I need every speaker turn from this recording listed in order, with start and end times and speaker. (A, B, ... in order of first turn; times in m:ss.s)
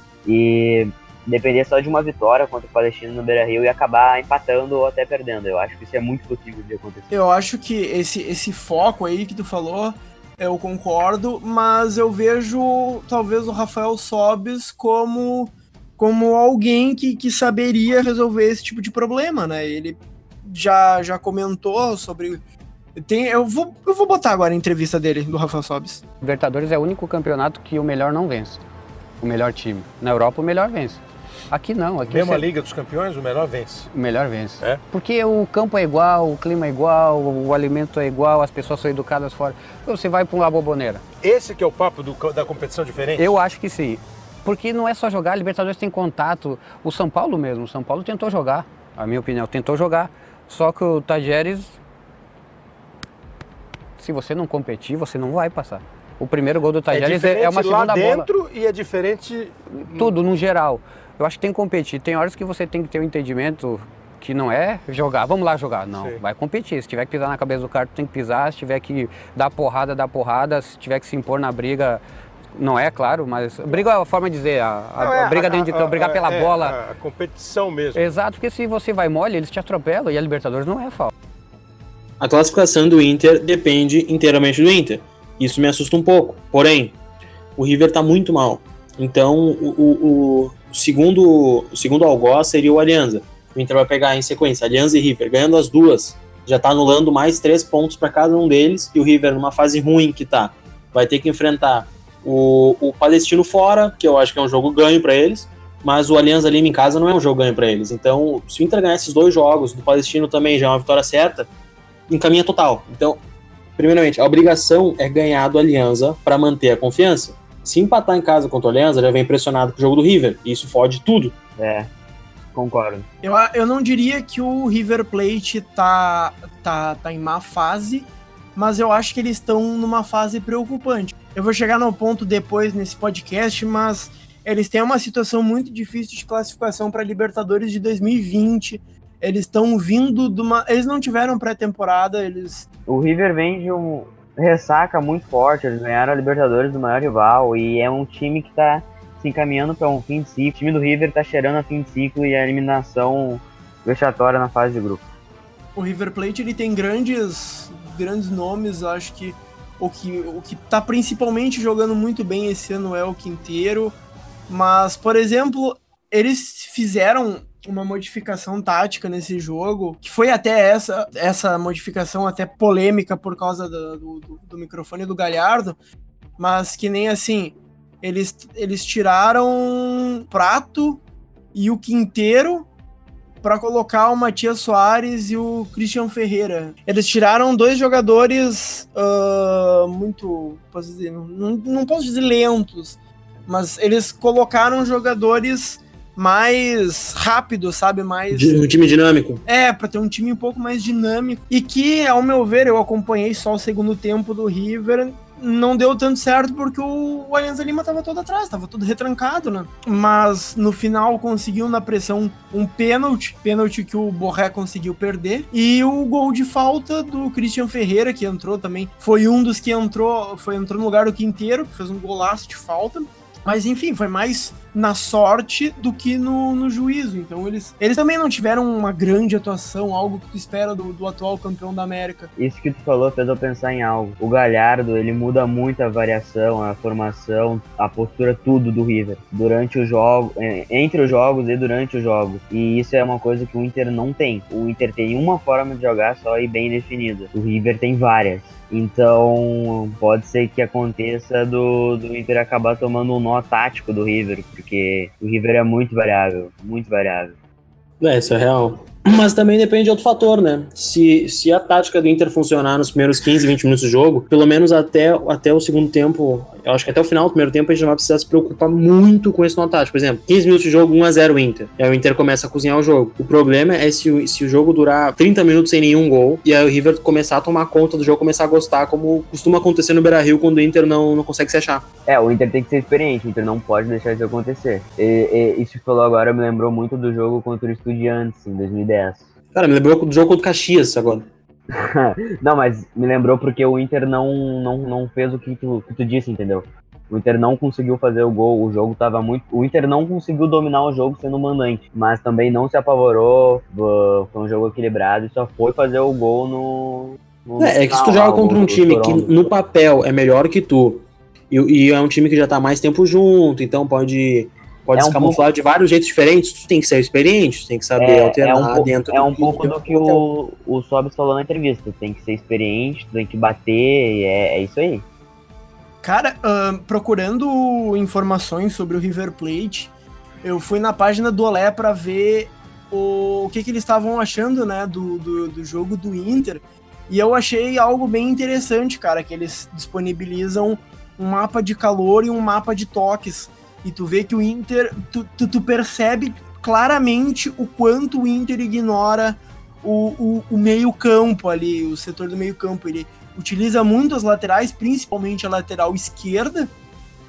0:00.2-0:07.1 A
0:07.1-0:22.4 B
0:23.0-0:26.0 B
0:26.2-0:28.6 C
0:29.2-0:32.5 C
0:32.0-0:33.9 D
0:33.9-0:41.0 C
0:41.2-0:43.4 D
0:43.2-0:51.8 C
0:54.0-0:58.3 C
0:56.9-1:00.2 D
0:59.9-1:12.0 C
1:06.0-1:06.2 D
1:12.6-1:16.8 C
1:15.0-1:18.0 D
1:18.0-1:21.1 C
1:22.2-1:27.0 E
1:27.6-1:51.5 E
1:52.1-1:53.2 E
1:53.8-2:01.3 E
2:01.6-2:01.9 A
2:02.5-2:03.1 A
2:03.2-2:22.7 B
2:22.9-2:35.0 A
2:35.8-2:44.0 B
2:44.5-2:55.8 B
2:56.4-3:01.0 B
3:01.5-3:02.7 B
3:03.4-3:18.6 B
3:18.3-3:19.4 E
3:19.5-3:52.3 B
3:52.4-4:17.4 A
4:18.0-4:41.8 E
4:42.1-4:49.2 A
4:49.6-4:51.3 E
4:51.7-5:09.3 A
5:07.6-5:20.2 E
5:15.0-5:15.4 A
5:18.0-5:25.0 A
5:26.0-5:29.9 B
5:30.4-5:56.7 B